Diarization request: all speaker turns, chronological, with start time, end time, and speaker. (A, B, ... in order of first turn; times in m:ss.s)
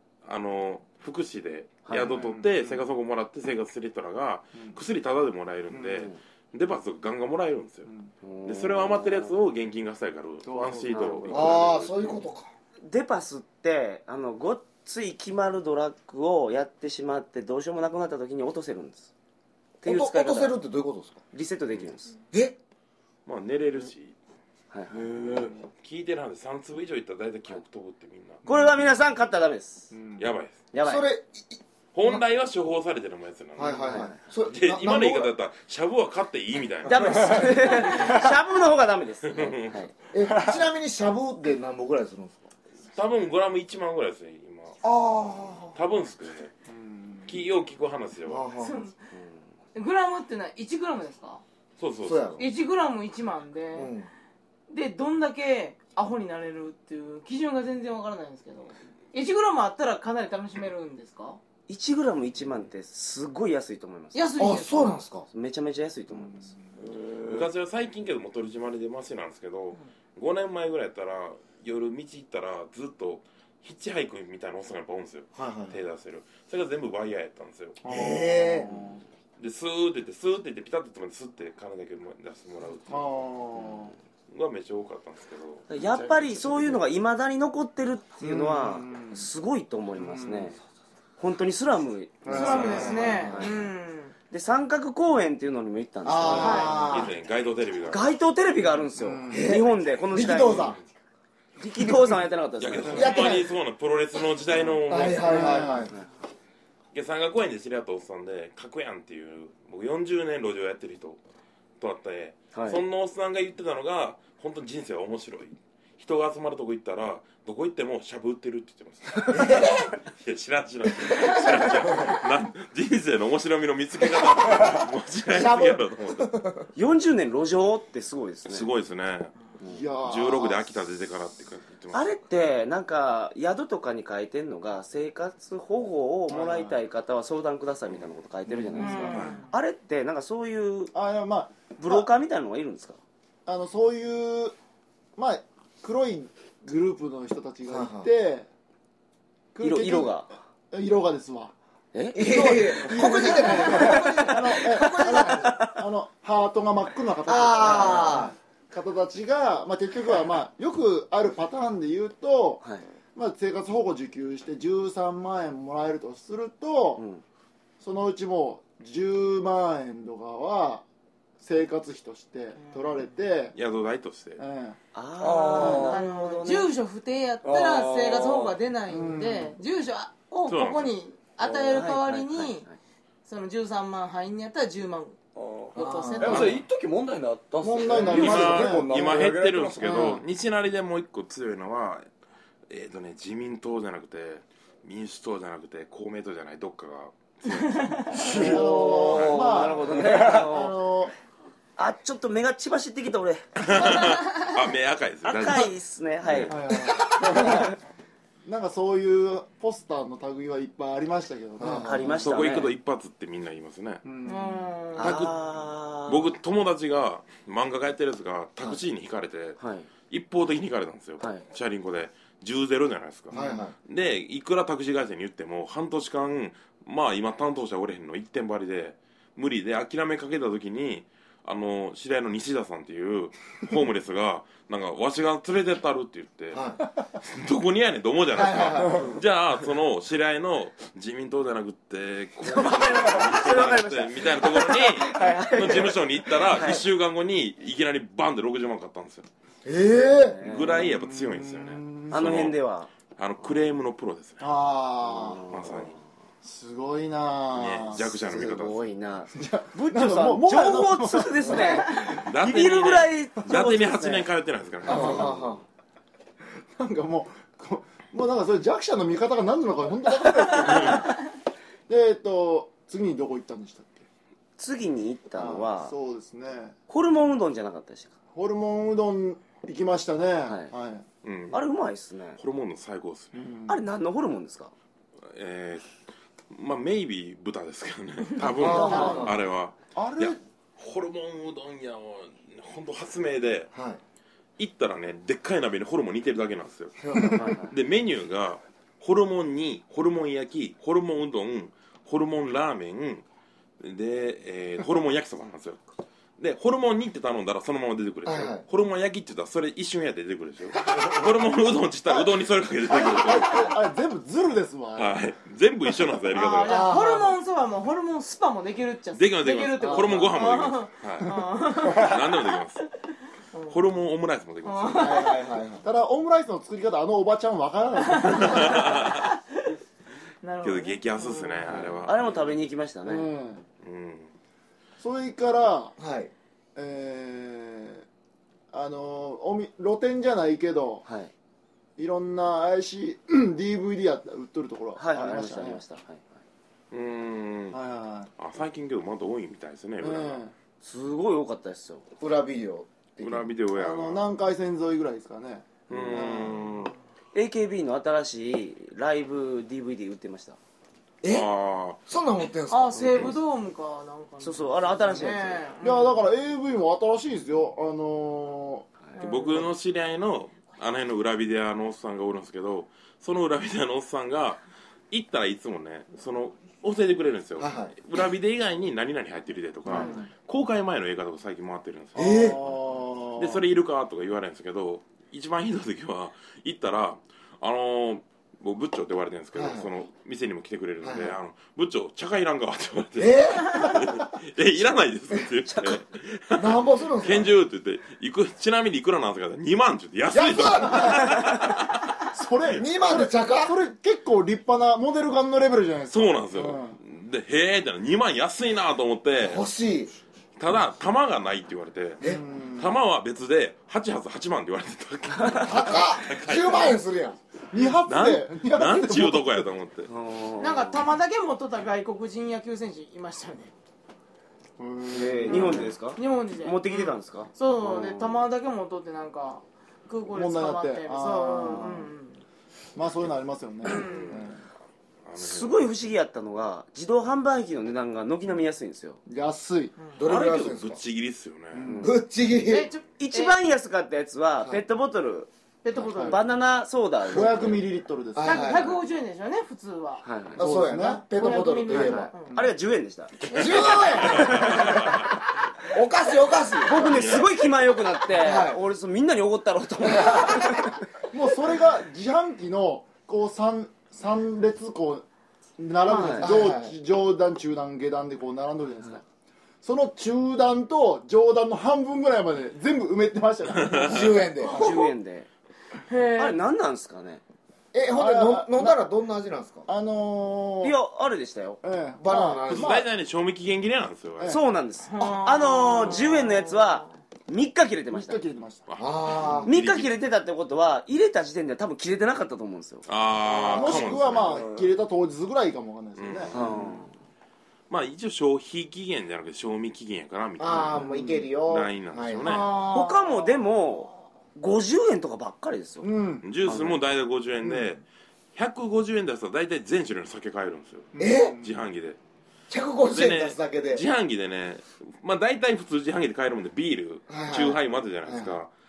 0:00.2-0:07.9 A
0:01.9-0:02.3 B
0:02.0-0:02.8 C
0:05.7-0:06.1 C
0:08.2-0:09.4 B
0:08.5-0:11.9 A
0:10.4-0:11.9 C
0:10.9-0:11.4 B
0:11.3-0:12.5 D
0:12.8-0:19.1 B
0:19.8-0:20.6 B
0:19.8-0:21.2 D
0:21.3-0:22.1 B
0:22.3-0:22.6 D
0:23.3-0:24.2 A
0:24.7-0:25.1 B
0:24.9-0:25.6 E
0:25.8-0:28.4 A
0:28.5-0:29.9 B
0:29.9-0:30.2 C
0:30.2-0:30.6 A
0:30.7-0:31.0 B
0:30.8-0:31.5 D
0:31.9-0:33.7 A
0:33.6-0:35.3 D
0:33.6-0:34.0 C
0:33.9-0:34.2 B
0:34.5-0:37.5 A
0:36.9-0:39.9 B
0:37.2-0:37.5 E
0:39.3-0:39.8 A
0:40.1-0:42.5 D
0:42.9-0:44.8 A
0:44.8-0:45.8 D
0:45.7-0:46.5 A
0:46.7-0:47.3 C
0:47.3-0:48.5 A
0:48.3-0:48.9 D
0:48.6-0:49.0 F
0:49.1-0:49.4 B
0:49.8-0:51.4 F
0:51.8-0:52.4 A
0:52.0-0:52.4 D
0:52.4-0:53.9 F
0:53.8-0:54.1 D
0:54.7-1:01.4 F
1:01.7-1:04.3 B
1:04.1-1:05.0 F
1:04.4-1:05.3 D
1:05.3-1:06.5 B
1:06.8-1:07.5 E
1:07.2-1:17.8 A
1:15.4-1:15.8 D
1:17.8-1:19.0 C
1:17.9-1:18.7 D
1:19.4-1:23.2 A
1:22.9-1:24.0 C
1:24.3-1:25.7 A
1:25.7-1:30.6 B
1:25.7-1:26.8 E
1:28.2-1:29.3 C
1:30.0-1:30.5 C
1:31.2-1:33.5 B
1:32.2-1:33.0 C
1:32.2-1:34.1 F
1:32.4-1:32.9 A
1:32.5-1:33.5 D
1:34.3-1:37.0 B
1:36.0-1:37.1 D
1:36.4-1:36.8 F
1:36.7-1:38.1 A
1:37.9-1:40.8 B
1:39.0-1:39.4 C
1:39.3-1:40.8 D
1:41.6-1:43.1 B
1:42.6-1:45.6 A
1:42.9-1:43.5 D
1:44.9-1:45.9 D
1:45.2-1:45.9 C
1:46.9-1:51.2 A
1:51.8-1:59.6 A
1:52.5-1:52.8 B
1:59.3-1:59.9 D
2:00.2-2:06.3 A
2:01.0-2:01.5 D
2:04.2-2:06.7 D
2:06.8-2:08.7 B
2:08.5-2:09.4 A
2:09.6-2:10.7 C
2:10.0-2:12.2 A
2:11.9-2:20.9 B
2:16.3-2:16.8 C
2:18.5-2:19.3 C
2:18.8-2:19.5 F
2:19.1-2:19.4 A
2:20.9-2:22.1 C
2:21.8-2:23.0 B
2:23.5-2:24.5 C
2:25.2-2:28.5 C
2:27.6-2:28.1 D
2:29.6-2:31.5 C
2:29.6-2:30.3 B
2:31.9-2:32.9 B
2:32.2-2:35.5 D
2:32.2-2:42.6 C
2:33.9-2:35.7 B
2:37.2-2:38.4 D
2:43.2-2:47.0 C
2:47.0-2:47.2 B
2:47.8-2:50.8 C
2:51.4-2:53.6 C
2:52.6-2:53.0 F
2:53.5-2:54.4 A
2:54.4-2:54.8 C
2:55.0-2:56.7 B
2:55.2-2:56.0 E
2:55.5-3:02.7 F
2:57.4-2:58.6 E
2:58.9-2:59.6 C
3:00.5-3:01.0 A
3:01.4-3:01.8 E
3:01.7-3:02.6 B
3:03.3-3:05.2 F
3:05.4-3:10.2 E
3:05.7-3:06.6 F
3:05.8-3:06.5 D
3:06.3-3:06.6 C
3:07.6-3:09.1 C
3:08.0-3:12.1 A
3:09.9-3:10.2 C
3:12.7-3:18.5 A
3:17.5-3:18.2 F
3:18.1-3:20.4 E
3:18.2-3:21.1 C
3:18.4-3:20.8 B
3:19.1-3:19.4 A
3:21.8-3:24.2 B
3:23.6-3:25.7 A
3:25.2-3:27.7 B
3:26.2-3:26.6 A
3:26.5-3:27.8 C
3:28.5-3:32.2 C
3:31.6-3:32.2 D
3:31.8-3:32.7 B
3:32.2-3:34.0 A
3:34.0-3:34.7 C
3:34.2-3:35.3 F
3:35.0-3:36.3 B
3:35.0-3:35.4 A
3:36.1-3:56.6 A
3:39.6-3:39.9 B
3:43.3-3:43.8 D
3:43.3-3:43.6 C
3:56.5-3:56.8 D
3:57.2-4:09.3 A
3:58.3-3:59.1 D
4:02.4-4:06.8 B
4:09.6-4:10.4 D
4:10.2-4:10.9 B
4:10.4-4:12.6 A
4:10.8-4:12.5 C
4:12.1-4:12.9 B
4:13.2-4:14.4 A
4:14.4-4:15.4 C
4:15.0-4:15.9 B
4:15.5-4:15.9 A
4:16.4-4:18.1 C
4:17.5-4:18.8 A
4:18.3-4:24.3 B
4:19.4-4:22.2 C
4:22.2-4:25.3 A
4:24.9-4:25.6 D
4:24.9-4:25.3 C
4:24.9-4:25.4 B
4:26.7-4:31.1 C
4:31.9-4:34.1 C
4:34.6-4:35.9 B
4:35.4-4:36.8 C
4:36.9-4:38.1 B
4:38.3-4:41.0 C
4:40.4-4:40.7 B
4:41.2-4:41.6 A
4:41.5-4:42.4 B
4:42.4-4:43.4 A
4:43.3-4:43.8 C
4:43.7-4:44.7 B
4:45.3-4:45.9 A
4:46.5-4:53.7 A
4:48.6-4:49.4 D
4:48.6-4:49.3 B
4:48.6-4:49.2 C
4:48.7-4:49.2 F
4:50.0-4:50.4 C
4:53.7-4:54.0 D
4:54.6-5:03.2 A
4:57.0-4:57.4 D
4:57.4-4:57.8 B
5:03.8-5:05.8 A
5:06.4-5:13.8 A
5:08.2-5:08.6 D
5:12.9-5:15.2 C
5:15.0-5:16.9 A
5:16.3-5:22.8 F
5:16.6-5:17.4 D
5:19.2-5:22.8 A
5:19.8-5:20.4 D
5:23.5-5:23.8 F
5:23.7-5:25.3 A
5:24.6-5:25.5 F
5:25.0-5:25.8 D
5:25.8-5:29.0 C
5:28.0-5:29.8 F
5:28.3-5:29.3 A
5:30.4-5:31.8 F
5:30.6-5:32.6 A
5:31.7-5:33.3 B
5:33.1-5:33.6 C
5:33.8-5:34.3 A
5:35.0-5:36.0 C
5:36.0-5:36.3 D
5:36.8-5:38.0 C
5:38.7-5:41.0 C
5:41.0-5:41.3 B
5:42.0-5:45.8 C
5:45.0-5:46.2 B
5:46.9-5:47.8 A
5:47.7-5:48.3 C
5:48.4-5:50.4 A
5:50.0-5:50.5 C
5:50.8-5:52.0 B
5:52.2-5:53.5 D
5:53.2-5:54.2 A
5:53.8-5:56.7 C
5:55.9-5:56.9 A
5:57.3-6:00.6 B
6:01.2-6:01.5 D
6:01.3-6:02.0 A
6:02.1-6:03.4 D
6:02.7-6:06.2 F
6:03.0-6:03.4 A
6:04.4-6:05.6 B
6:05.8-6:08.9 C
6:09.2-6:09.7 F
6:09.2-6:22.8 A
6:17.6-6:17.9 D
6:19.9-6:20.2 F
6:22.2-6:22.6 D
6:22.2-6:23.6 C
6:23.4-6:42.1 A
6:29.5-6:29.9 D
6:31.0-6:31.4 D
6:33.2-6:34.1 D
6:35.7-6:36.0 B
6:36.6-6:37.5 D
6:40.3-6:41.7 D
6:42.3-6:47.0 C
6:42.7-6:43.8 D
6:46.1-6:49.6 A
6:49.4-6:50.1 D
6:50.6-6:52.2 A
6:52.2-6:53.0 C
6:52.8-6:57.0 A
6:55.6-6:57.4 D
6:57.7-6:59.7 C
6:57.8-7:00.1 A
7:00.1-7:01.0 B
7:00.6-7:03.7 F
7:04.8-7:06.0 C
7:05.1-7:08.4 B
7:05.5-7:12.4 F
7:10.3-7:12.1 C
7:13.0-7:14.6 C
7:13.8-7:14.5 F
7:13.9-7:14.4 A
7:15.3-7:15.9 A
7:15.4-7:19.2 B
7:19.3-7:19.9 C
7:20.2-7:21.0 D
7:20.2-7:21.8 A
7:21.7-7:22.2 C
7:21.9-7:22.1 B
7:22.0-7:22.9 D
7:22.6-7:23.6 F
7:23.2-7:25.5 B
7:25.8-7:26.4 F
7:26.1-7:26.4 C
7:26.2-7:27.8 B
7:27.3-7:28.8 C
7:28.4-7:29.0 D
7:28.4-7:30.2 F
7:30.2-7:30.6 B
7:30.6-7:32.3 D
7:30.6-7:31.5 C
7:31.4-7:32.6 F
7:31.9-7:35.0 B
7:33.5-7:34.2 F
7:33.5-7:35.2 D
7:33.5-7:35.3 A
7:35.8-7:37.4 D
7:36.8-7:40.9 B
7:37.0-7:37.6 A
7:38.3-7:38.8 D
7:40.2-7:40.5 D
7:41.3-7:45.2 C
7:45.8-7:49.2 C
7:46.1-7:46.6 F
7:46.1-7:46.5 B
7:46.4-7:47.0 D
7:49.8-7:54.8 C
7:53.8-7:54.4 A
7:54.0-7:54.9 D
7:54.7-7:55.5 B
7:56.1-7:56.6 F
7:56.4-7:57.4 B
7:57.9-7:59.9 D
7:58.2-7:59.0 C
7:59.9-8:01.0 C
8:00.8-8:01.8 B
8:01.8-8:03.1 C
8:02.2-8:02.9 D
8:02.7-8:04.6 A
8:04.4-8:04.6 C
8:04.4-8:08.4 B
8:05.0-8:07.1 F
8:08.1-8:08.9 C
8:08.9-8:10.1 A
8:09.0-8:09.7 D
8:09.7-8:13.0 B
8:13.1-8:14.7 A
8:13.5-8:16.5 C
8:13.7-8:14.9 E
8:16.2-8:16.8 A
8:16.5-8:17.1 B
8:17.9-8:21.0 A
8:20.6-8:22.6 D
8:20.9-8:21.4 C
8:21.7-8:22.8 A
8:22.4-8:23.5 F
8:22.9-8:26.1 B
8:26.0-8:26.5 C
8:26.4-8:28.0 A
8:26.6-8:27.0 B
8:27.6-8:27.9 C
8:28.6-8:32.2 A
8:31.1-8:31.7 C
8:31.2-8:31.6 D
8:32.7-8:34.0 D
8:33.1-8:38.7 A
8:37.3-8:38.6 D